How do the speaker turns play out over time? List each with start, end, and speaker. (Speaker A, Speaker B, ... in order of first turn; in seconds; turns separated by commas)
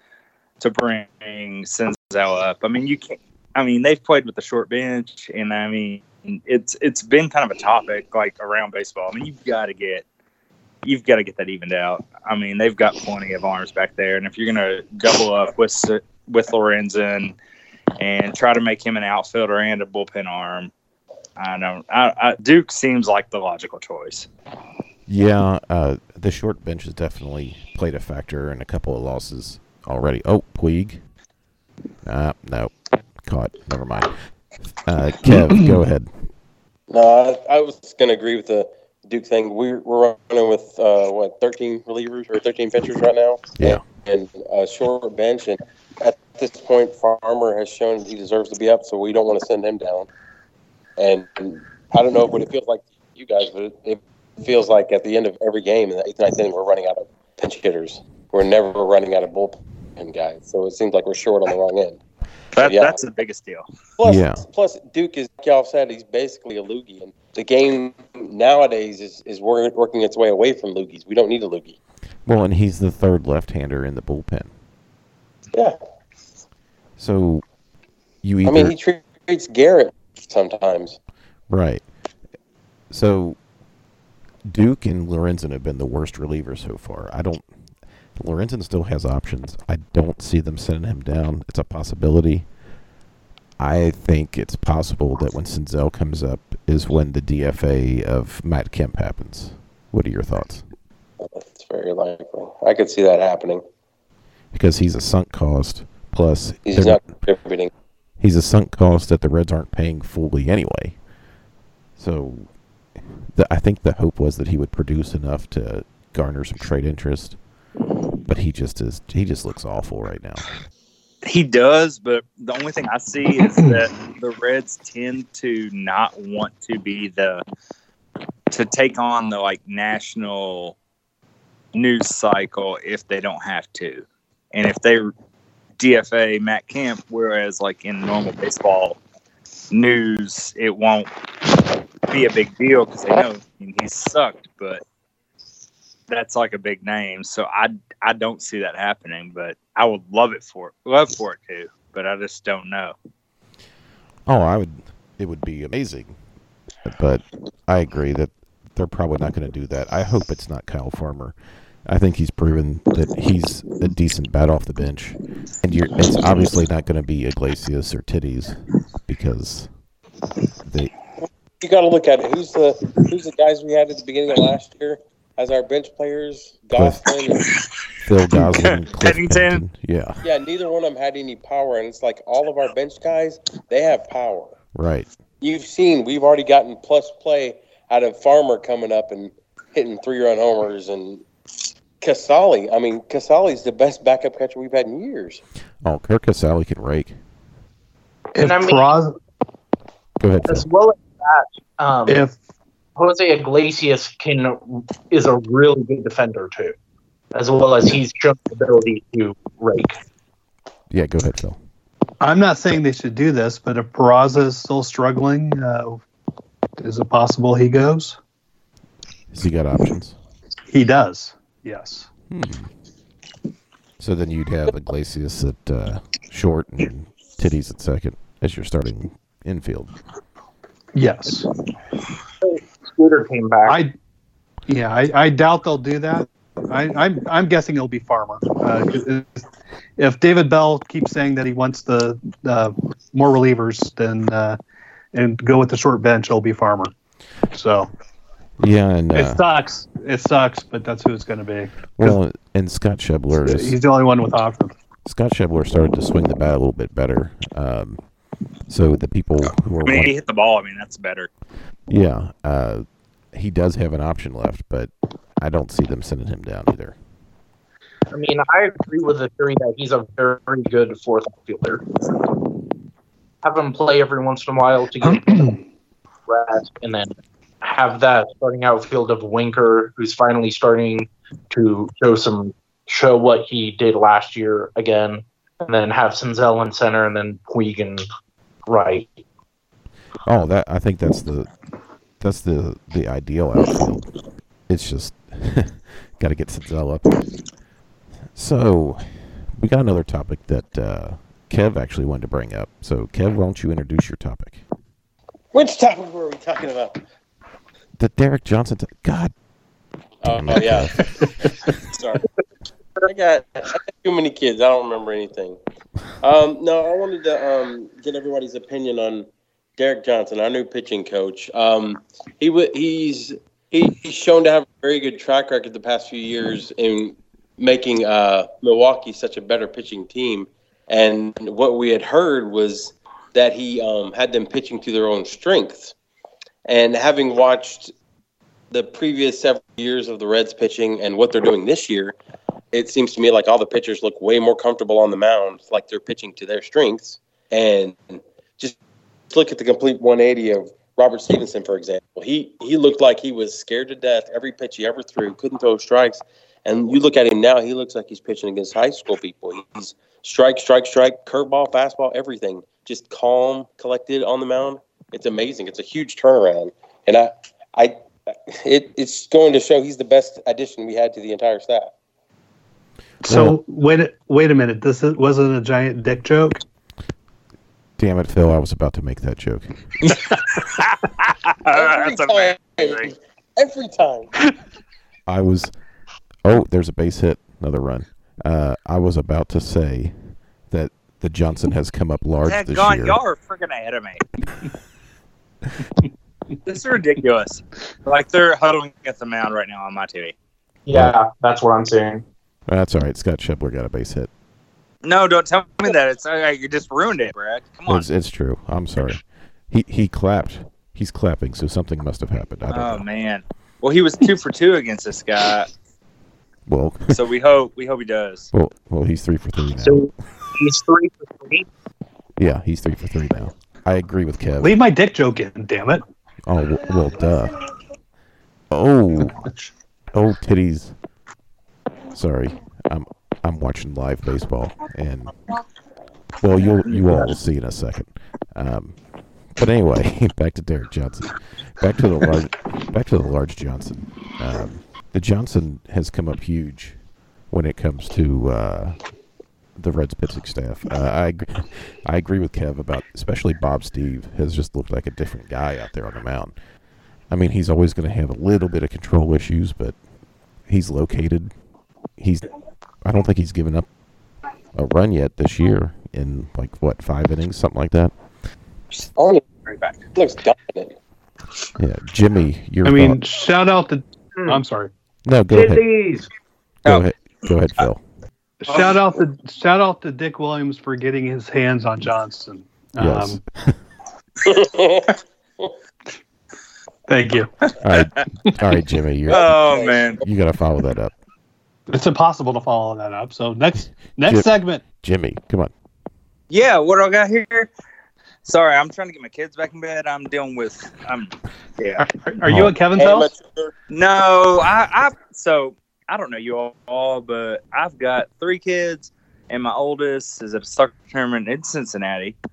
Speaker A: 0.6-10.1, Speaker A: 10.8-17.4, Speaker A: 18.0-20.7, Speaker A: 21.4-24.3, Speaker B: 25.1-31.0, Speaker B: 32.0-34.2, Speaker B: 34.9-36.1, Speaker C: 36.9-50.1, Speaker C: 51.0-62.0, Speaker A: 62.5-63.6, Speaker C: 62.6-63.0, Speaker C: 64.0-71.8, Speaker B: 64.0-64.5, Speaker B: 72.3-74.5, Speaker B: 77.0-77.4, Speaker B: 78.2-78.8, Speaker C: 78.5-81.0, Speaker B: 81.5-81.8, Speaker B: 82.9-83.4, Speaker B: 84.5-87.5, Speaker B: 88.2-92.5, Speaker B: 93.6-100.6, Speaker C: 101.2-103.6, Speaker B: 104.5-107.1, Speaker C: 106.7-107.7, Speaker B: 108.2-111.0, Speaker B: 112.0-112.5, Speaker B: 113.3-117.4, Speaker B: 118.3-120.4, Speaker A: 121.2-127.4, Speaker A: 128.5-130.8, Speaker A: 131.7-135.1, Speaker A: 135.8-139.0, Speaker A: 139.7-141.1, Speaker A: 142.1-144.8, Speaker A: 146.1-152.9, Speaker B: 154.3-156.2, Speaker B: 156.8-169.7, Speaker B: 170.7-170.9, Speaker C: 171.6-177.5, Speaker B: 176.8-177.1, Speaker B: 178.0-180.2, Speaker A: 178.4-179.6, Speaker C: 180.2-184.6, Speaker B: 184.8-185.1, Speaker C: 185.4-191.2, Speaker C: 192.0-195.4, Speaker B: 195.8-197.2, Speaker D: 198.3-199.2, Speaker E: 198.4-198.9, Speaker B: 200.2-200.7, Speaker E: 200.5-202.3, Speaker D: 202.1-202.3, Speaker E: 203.0-206.8, Speaker E: 207.3-210.0, Speaker B: 210.9-211.6, Speaker D: 212.2-216.0, Speaker D: 216.8-218.2, Speaker B: 219.3-220.2, Speaker D: 220.7-222.1, Speaker B: 222.3-222.7, Speaker B: 224.0-229.9, Speaker D: 230.9-231.5, Speaker E: 232.4-233.8, Speaker D: 233.7-233.9, Speaker D: 234.7-239.4, Speaker D: 240.0-244.6, Speaker D: 245.1-246.9, Speaker D: 247.5-247.9, Speaker B: 248.6-249.4, Speaker D: 249.2-252.2, Speaker B: 251.9-253.8, Speaker D: 253.4-254.7, Speaker B: 255.1-258.0, Speaker B: 258.7-260.1, Speaker A: 259.9-261.3, Speaker B: 261.9-267.0, Speaker E: 268.1-271.8, Speaker E: 273.4-275.5, Speaker D: 275.0-275.6, Speaker E: 276.3-288.1, Speaker E: 288.7-289.1, Speaker B: 290.2-291.5, Speaker B: 292.2-294.1, Speaker B: 294.7-297.2, Speaker B: 298.4-304.6, Speaker C: 305.5-307.0, Speaker B: 308.0-309.3, Speaker C: 310.2-312.3, Speaker B: 310.2-311.1, Speaker C: 313.0-315.6, Speaker C: 316.2-335.9, Speaker C: 336.6-337.9, Speaker C: 338.7-342.2, Speaker C: 342.7-348.8, Speaker C: 349.3-371.9, Speaker D: 373.2-376.6, Speaker B: 373.3-373.6, Speaker B: 378.0-379.7, Speaker A: 380.1-383.1, Speaker C: 381.7-384.3, Speaker B: 385.3-385.7, Speaker B: 386.4-393.2, Speaker A: 392.4-394.2, Speaker A: 396.6-400.4, Speaker E: 400.9-402.2, Speaker B: 402.7-404.3, Speaker A: 405.0-408.0, Speaker B: 407.9-413.1, Speaker A: 412.7-415.7, Speaker B: 416.7-417.2, Speaker A: 417.1-418.5, Speaker B: 418.5-420.1, Speaker E: 419.8-421.7, Speaker B: 422.4-424.8, Speaker D: 424.6-426.0, Speaker B: 426.5-427.6, Speaker B: 428.7-429.4, Speaker B: 430.1-430.9, Speaker B: 432.1-435.4, Speaker B: 436.4-439.0, Speaker B: 439.6-447.0, Speaker B: 447.5-449.0, Speaker B: 449.8-456.5, Speaker B: 457.3-460.0, Speaker B: 460.7-461.5, Speaker B: 462.2-462.5, Speaker B: 463.0-463.9, Speaker B: 464.7-468.1, Speaker C: 469.2-469.4, Speaker A: 469.7-469.9, Speaker C: 470.1-470.9, Speaker B: 471.8-473.2, Speaker D: 472.9-474.9, Speaker B: 475.2-475.9, Speaker E: 475.5-476.3, Speaker B: 476.9-478.0, Speaker D: 478.6-483.4, Speaker B: 483.0-483.8, Speaker C: 484.4-485.7, Speaker D: 487.1-487.5, Speaker B: 487.8-489.6, Speaker C: 489.3-490.2, Speaker A: 489.3-490.2, Speaker B: 490.2-491.1, Speaker D: 491.9-494.8, Speaker B: 494.2-495.7, Speaker A: 496.5-497.7, Speaker A: 498.4-502.2, Speaker D: 502.0-503.3, Speaker B: 502.4-502.8, Speaker C: 502.9-503.7, Speaker A: 503.9-512.4